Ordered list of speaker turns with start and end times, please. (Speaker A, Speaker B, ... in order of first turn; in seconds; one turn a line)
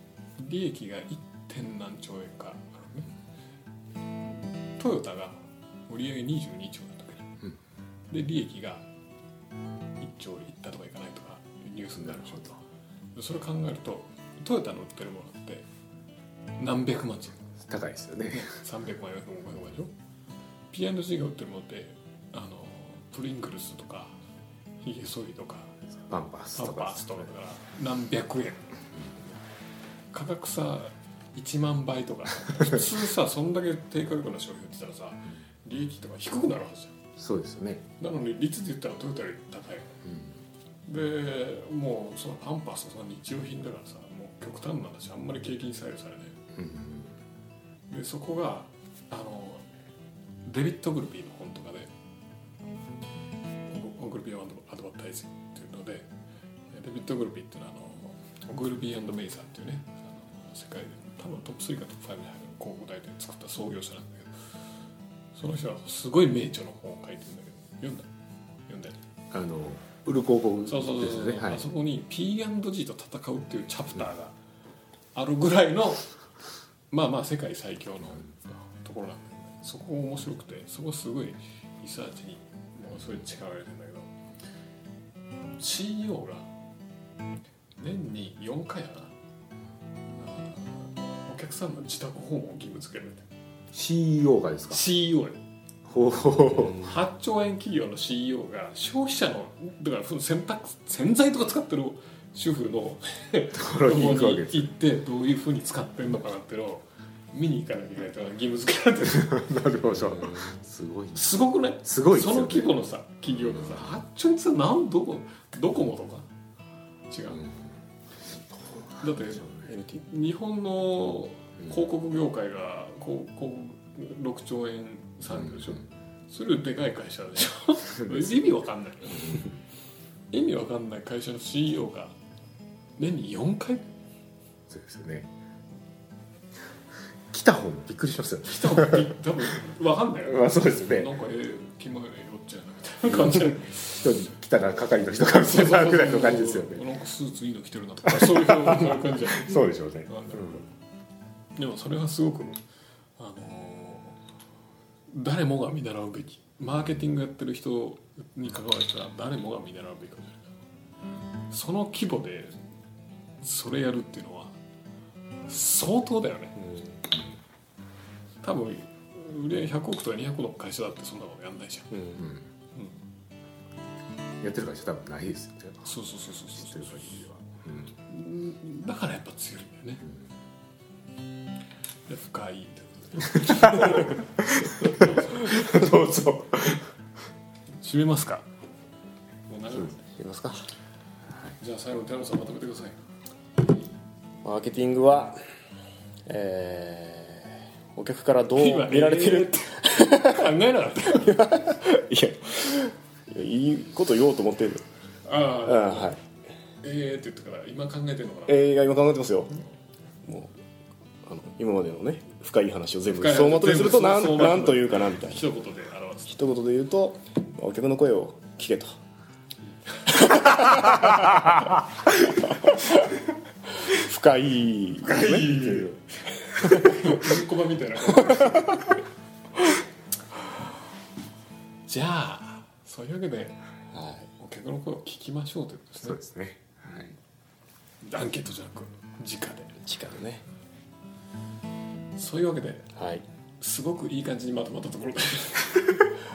Speaker A: 0.4-3.1
Speaker A: 4.8-7.3
Speaker A: 8.1-8.8
Speaker A: 10.0-12.6
Speaker B: 12.0-12.5
Speaker A: 13.2-15.7
Speaker A: 16.6-17.4
Speaker B: 17.6-18.5
Speaker A: 18.3-19.9
Speaker A: 20.7-24.1
Speaker A: 24.8-25.8
Speaker B: 26.1-27.2
Speaker A: 26.6-28.7
Speaker A: 30.1-37.0
Speaker B: 37.2-37.8
Speaker A: 38.0-40.0
Speaker B: 40.0-40.3
Speaker A: 40.9-46.4
Speaker B: 46.5-47.1
Speaker A: 47.9-49.6
Speaker A: 50.5-51.9
Speaker A: 53.7-56.1
Speaker A: 56.7-64.5
Speaker A: 65.3-68.1
Speaker A: 68.7-69.0
Speaker B: 69.3-71.7
Speaker A: 70.7-74.3
Speaker A: 75.2-76.1
Speaker A: 76.9-84.1
Speaker A: 85.6-86.5
Speaker A: 87.8-89.1
Speaker A: 90.1-93.3
Speaker B: 93.7-94.8
Speaker A: 94.7-95.4
Speaker B: 95.9-96.9
Speaker A: 96.7-109.4
Speaker B: 103.5-104.7
Speaker B: 109.1-111.2
Speaker A: 111.1-116.3
Speaker B: 111.8-112.8
Speaker B: 113.3-113.9
Speaker A: 117.1-117.5
Speaker B: 117.3-117.6
Speaker B: 118.6-119.7
Speaker A: 119.0-129.5
Speaker C: 119.7-120.0
Speaker B: 125.3-125.8
Speaker A: 130.3-132.2
Speaker A: 133.0-133.9
Speaker B: 134.7-135.3
Speaker B: 137.3-139.1
Speaker A: 138.4-144.0
Speaker B: 140.2-141.1
Speaker B: 143.1-146.8
Speaker A: 145.4-150.6
Speaker B: 148.1-150.6
Speaker A: 151.6-152.6
Speaker A: 153.2-154.2
Speaker A: 155.1-160.5
Speaker A: 161.5-162.5
Speaker A: 163.4-164.5
Speaker A: 165.5-166.6
Speaker A: 168.4-172.1
Speaker C: 171.9-172.2
Speaker B: 172.2-172.5
Speaker B: 174.4-175.9
Speaker A: 175.8-177.3
Speaker B: 176.5-177.9
Speaker A: 178.1-180.1
Speaker A: 182.1-185.8
Speaker B: 183.4-186.8
Speaker A: 187.8-188.5
Speaker A: 189.5-190.0
Speaker C: 190.2-190.6
Speaker A: 191.6-193.0
Speaker C: 194.4-195.4
Speaker C: 196.3-200.5
Speaker A: 198.5-201.5
Speaker C: 201.2-204.8
Speaker A: 205.2-206.2
Speaker C: 205.6-206.2
Speaker A: 206.8-208.8
Speaker C: 208.5-209.6
Speaker C: 210.2-210.6
Speaker C: 211.2-215.5
Speaker A: 213.1-216.5
Speaker C: 216.3-218.9
Speaker A: 219.9-220.9
Speaker C: 220.2-223.2
Speaker C: 223.7-225.9
Speaker A: 225.0-225.9
Speaker C: 226.5-227.1
Speaker A: 226.6-228.9
Speaker C: 228.2-228.7
Speaker A: 231.9-233.6
Speaker C: 233.9-234.3
Speaker A: 234.4-236.2
Speaker B: 236.0-237.1
Speaker A: 238.0-239.7
Speaker C: 239.8-240.4
Speaker A: 242.2-242.9
Speaker C: 243.0-243.2
Speaker A: 243.6-246.1